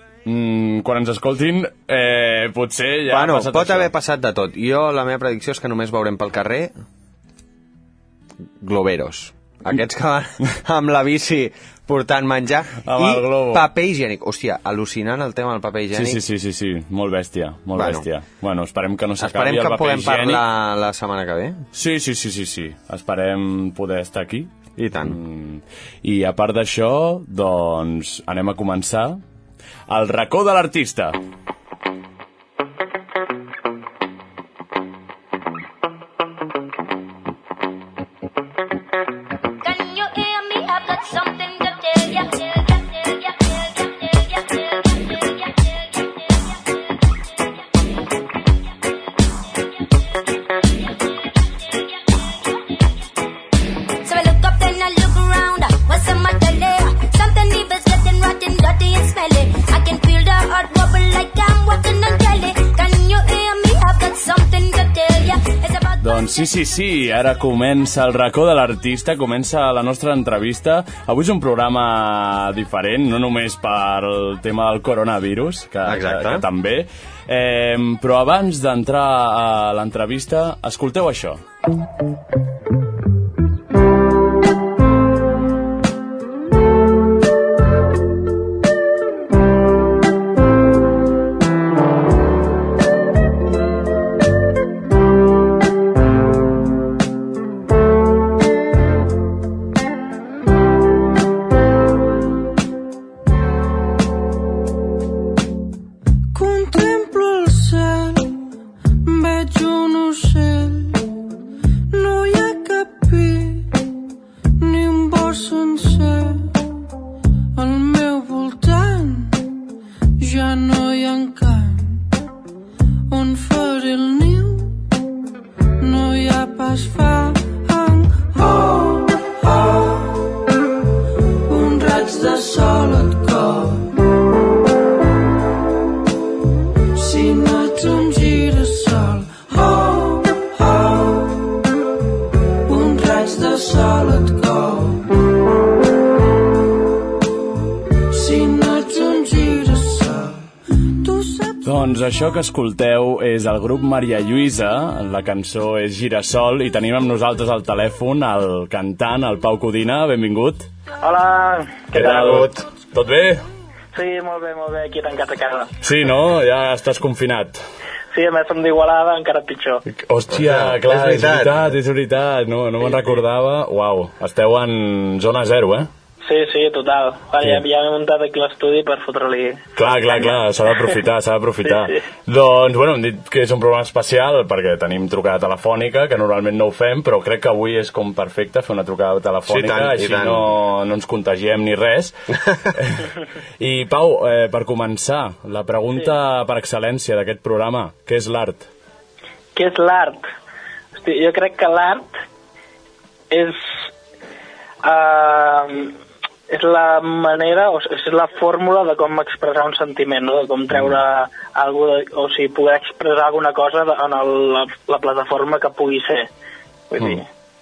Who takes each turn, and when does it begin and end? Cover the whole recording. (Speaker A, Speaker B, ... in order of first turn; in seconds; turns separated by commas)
Speaker A: 0.2-3.9, Speaker B: 3.1-6.7, Speaker B: 8.6-16.2, Speaker A: 12.8-13.7, Speaker A: 15.9-20.4, Speaker B: 17.8-18.1, Speaker B: 19.2-21.7, Speaker A: 21.7-29.2, Speaker B: 24.8-25.2, Speaker A: 29.9-31.2, Speaker C: 39.6-46.8, Speaker C: 50.6-52.6, Speaker C: 54.0-66.5, Speaker A: 66.0-81.4, Speaker B: 75.8-76.5, Speaker D: 106.3-108.4, Speaker D: 109.0-111.1, Speaker D: 111.9-113.8, Speaker D: 114.6-116.7, Speaker D: 117.5-119.5, Speaker D: 120.2-122.1, Speaker D: 123.1-124.8, Speaker D: 125.8-130.3, Speaker D: 131.5-134.0, Speaker D: 136.9-141.5, Speaker D: 142.7-145.2, Speaker D: 148.1-151.7, Speaker A: 151.6-160.7, Speaker E: 161.0-162.5, Speaker A: 161.9-163.4, Speaker B: 162.1-162.6, Speaker E: 163.9-165.8, Speaker A: 165.8-167.6, Speaker E: 168.1-169.8, Speaker A: 169.9-175.9, Speaker B: 170.3-171.7, Speaker E: 176.2-181.0, Speaker A: 179.8-192.2, Speaker E: 181.7-182.0, Speaker B: 189.5-190.5, Speaker A: 192.7-198.7, Speaker E: 199.6-200.3, Speaker E: 200.9-202.1, Speaker E: 203.3-203.9, Speaker E: 204.8-206.0, Speaker E: 206.5-216.3, Speaker E: 216.9-217.3, Speaker A: 217.0-217.2